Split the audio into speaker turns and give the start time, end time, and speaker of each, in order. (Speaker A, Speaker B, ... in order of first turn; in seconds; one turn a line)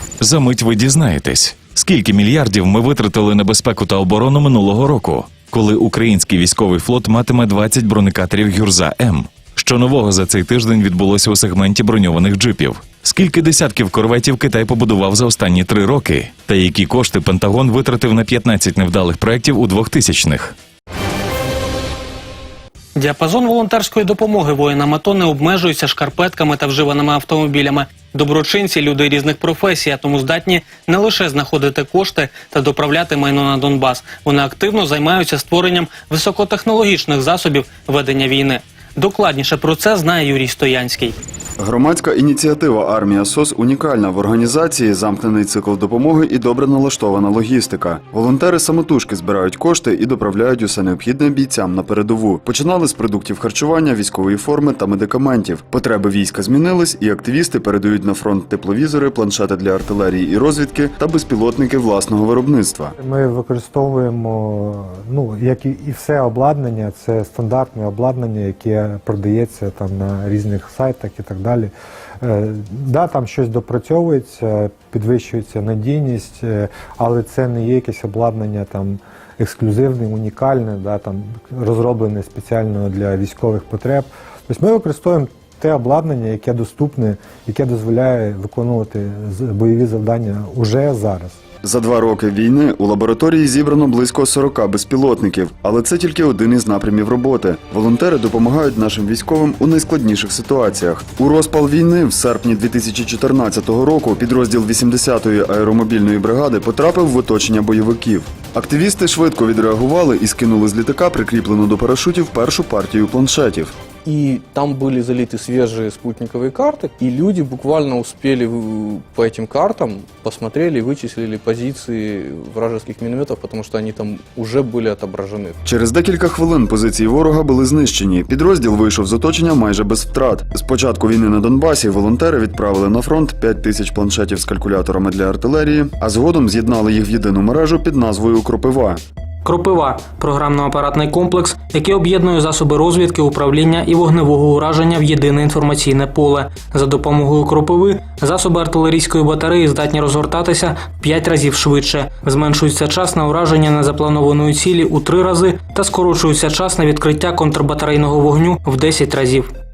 Speaker A: 0.2-20.6
Speaker B: 22.9-41.2
Speaker C: 41.6-62.9
Speaker D: 63.0-91.4
Speaker C: 91.6-113.7
Speaker E: 114.0-125.6
Speaker C: 125.7-139.0
Speaker B: 139.4-159.5